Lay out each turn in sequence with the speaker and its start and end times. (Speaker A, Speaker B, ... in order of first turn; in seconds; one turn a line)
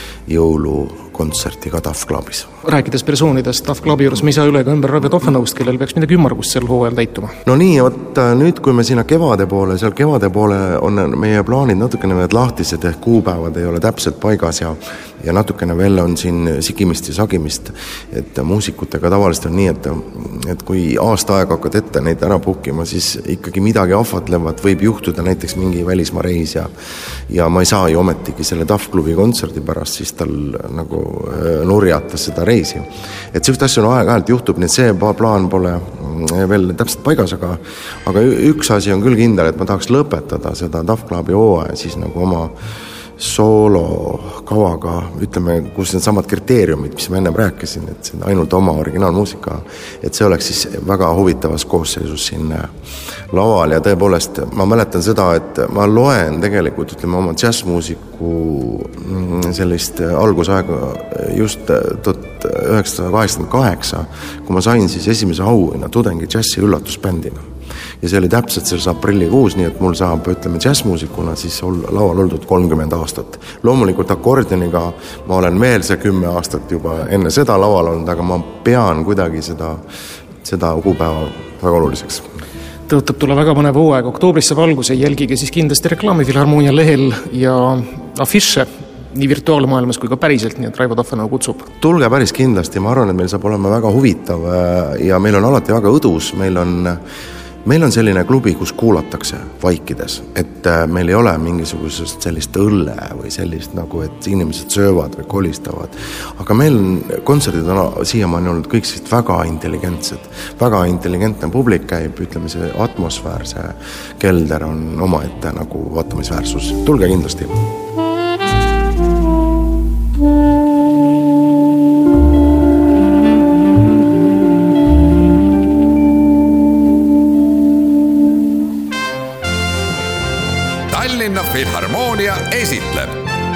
Speaker A: 0.3-2.5
Speaker B: 2.6-7.3
Speaker A: 7.5-26.7
Speaker A: 27.3-42.5
Speaker A: 43.2-52.7
Speaker A: 53.3-67.4
Speaker A: 68.0-79.8
Speaker A: 80.5-82.3
Speaker B: 82.9-91.7
Speaker A: 91.8-97.0
Speaker A: 97.7-117.6
Speaker C: 130.9-133.2